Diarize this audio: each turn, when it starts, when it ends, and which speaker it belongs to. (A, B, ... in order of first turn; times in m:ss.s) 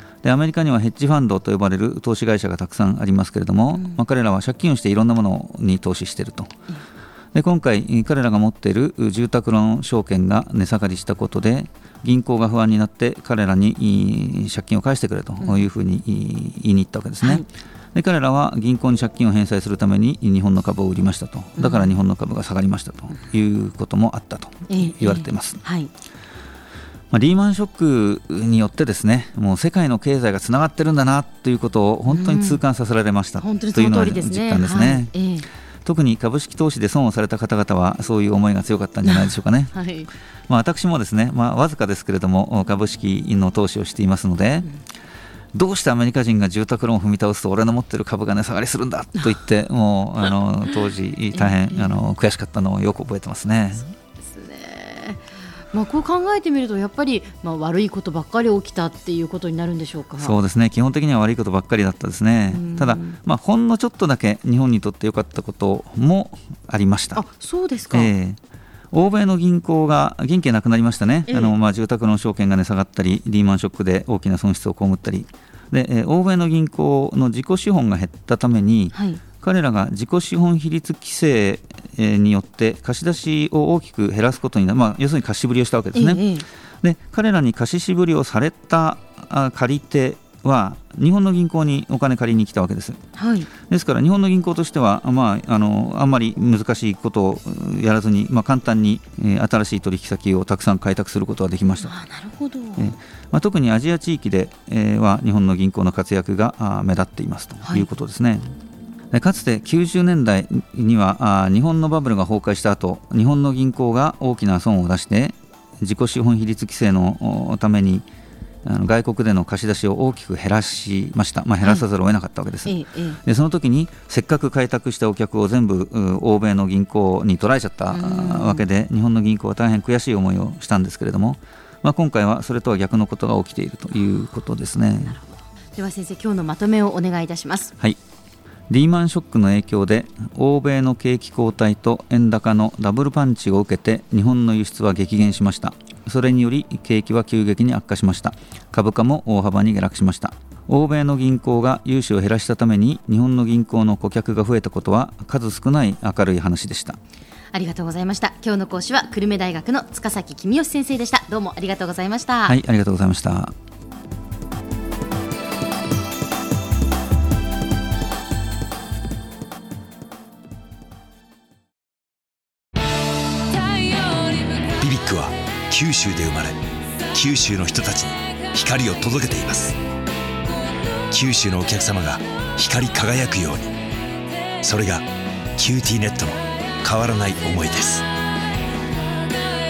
0:00.2-0:06.5 A
0:03.7-0:04.0 B
0:07.3-0:25.6 A
0:15.4-0:15.6 B
0:21.6-0:21.9 B
0:24.7-0:25.9 B
0:27.1-0:35.1 A
0:32.1-0:32.6 B
0:33.4-0:35.4 B
0:35.8-0:39.7 A
0:39.0-0:40.1 B
0:40.5-0:44.7 A
0:45.5-0:53.9 A
0:51.3-0:51.9 B
0:54.2-1:00.4 B
1:00.2-1:07.2 A
1:02.5-1:03.2 B
1:07.1-1:08.1 B
1:07.9-1:08.4 A
1:08.9-1:26.3 A
1:11.3-1:11.5 B
1:18.9-1:19.2 B
1:25.9-1:26.4 B
1:26.8-1:33.0 A
1:33.2-1:33.5 B
1:33.7-1:41.9 A
1:41.8-1:42.9 B
1:42.8-1:48.4 A
1:49.1-1:58.0 A
1:58.6-2:15.2 A
2:02.6-2:03.2 B
2:07.9-2:08.6 B
2:15.2-2:17.7 B
2:18.7-2:37.0 A
2:37.5-2:42.6 B
2:42.4-2:43.5 A
2:54.8-2:56.6 C
2:57.1-2:59.8 C
3:01.1-3:03.7 C
3:04.6-3:08.0 C